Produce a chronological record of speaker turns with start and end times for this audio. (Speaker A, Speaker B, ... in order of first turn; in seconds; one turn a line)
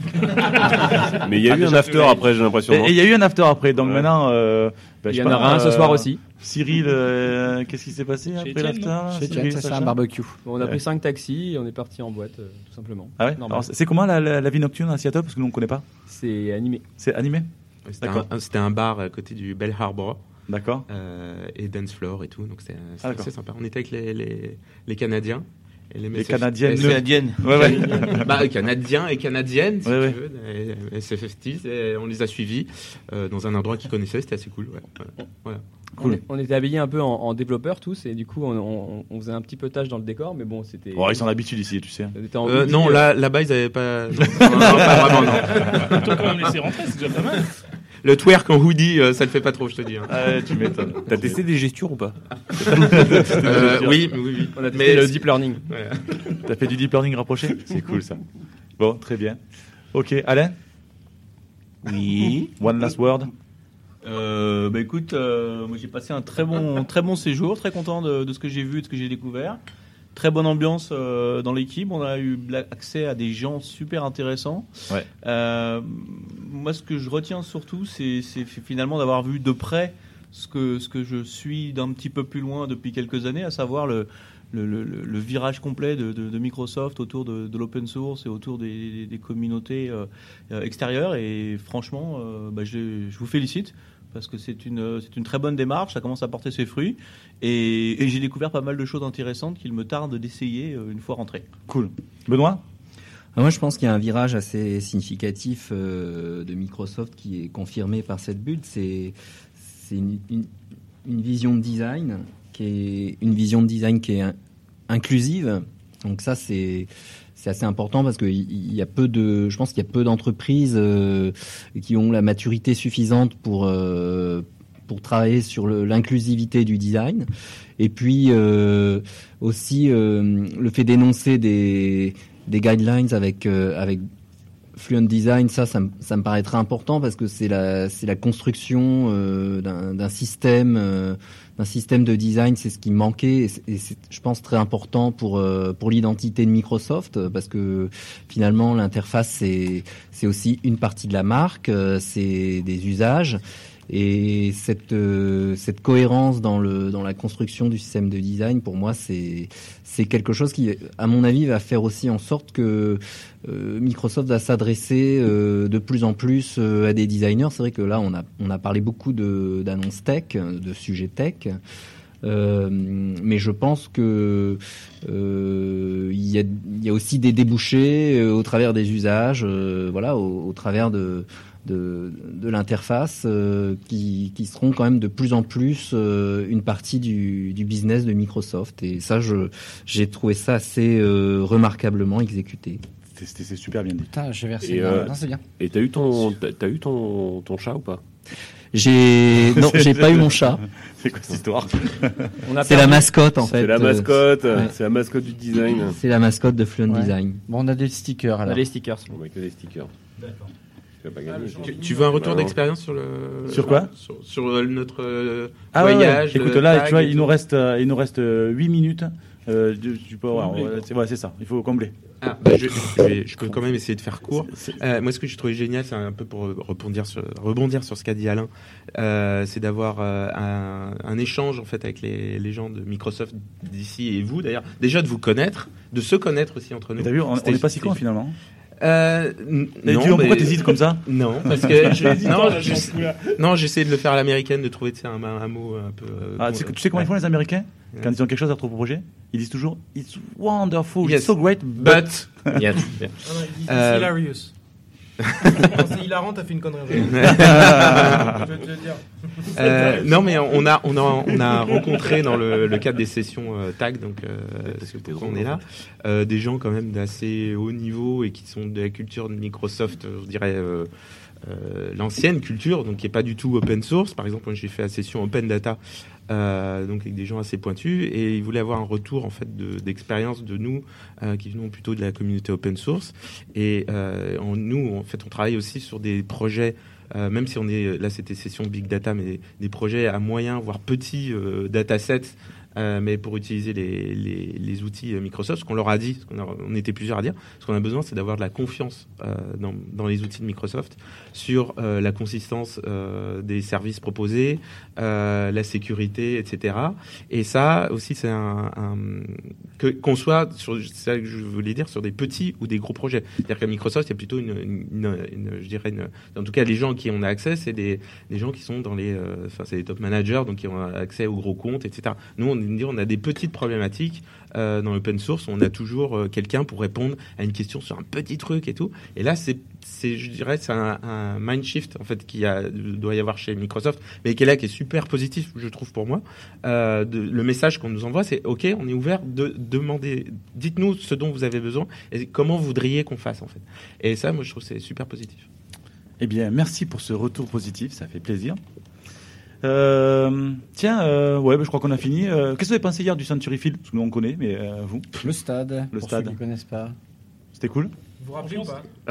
Speaker A: 0.6-2.9
Speaker B: 2.7-10.0
Speaker C: 5.1-6.2
Speaker D: 8.3-9.0
Speaker E: 9.1-10.4
Speaker C: 10.4-13.7
Speaker B: 13.2-15.8
Speaker C: 16.1-16.8
Speaker B: 17.0-17.5
Speaker F: 17.9-20.2
Speaker B: 18.0-18.3
Speaker B: 20.5-20.9
Speaker F: 20.9-35.6
Speaker B: 23.0-23.3
Speaker B: 26.1-28.3
Speaker G: 26.7-28.1
Speaker B: 29.8-30.2
Speaker C: 36.0-41.2
Speaker B: 40.9-42.1
Speaker C: 42.1-43.1
Speaker F: 42.4-46.1
Speaker B: 44.3-45.9
Speaker D: 45.6-47.4
Speaker F: 48.0-50.4
Speaker B: 50.1-51.4
Speaker A: 51.0-52.1
Speaker B: 52.6-54.1
Speaker F: 52.6-56.3
Speaker A: 52.8-53.4
Speaker C: 54.5-55.6
Speaker B: 56.4-58.2
Speaker B: 58.8-59.4
Speaker B: 59.9-60.5
Speaker G: 61.8-62.5
Speaker B: 62.6-63.3
Speaker G: 64.0-69.6
Speaker G: 70.1-74.7
Speaker G: 75.2-101.5
Speaker B: 101.7-102.6
Speaker H: 103.3-110.5
Speaker H: 111.0-114.3
Speaker H: 114.9-127.3
Speaker H: 127.8-134.0
Speaker H: 134.8-171.6
Speaker H: 172.2-192.8
Speaker B: 193.1-194.1
Speaker E: 194.1-195.4
Speaker A: 194.6-198.0
Speaker H: 198.7-200.6
Speaker B: 199.4-202.5
Speaker C: 202.4-203.1
Speaker H: 202.6-204.6
Speaker A: 203.5-206.0
Speaker H: 205.9-207.4
Speaker E: 206.9-208.6
Speaker C: 208.4-209.1
Speaker A: 209.1-209.9
Speaker A: 211.0-212.6
Speaker I: 211.2-212.4
Speaker F: 211.6-217.3
Speaker B: 213.5-213.9
Speaker B: 215.7-221.9
Speaker F: 222.2-238.0
Speaker B: 237.0-238.3
Speaker F: 238.8-247.1
Speaker B: 239.8-242.3
Speaker D: 241.8-243.4
Speaker B: 246.4-252.6
Speaker F: 251.0-254.2
Speaker I: 253.2-254.5
Speaker F: 255.2-255.7
Speaker I: 255.6-259.6
Speaker F: 257.0-258.4
Speaker F: 259.5-270.9
Speaker A: 264.7-265.6
Speaker F: 271.4-345.5
Speaker B: 346.2-348.6
Speaker B: 349.6-355.2
Speaker E: 355.2-356.9
Speaker B: 355.9-356.4
Speaker B: 357.5-357.9
Speaker I: 358.2-358.9
Speaker D: 358.4-358.8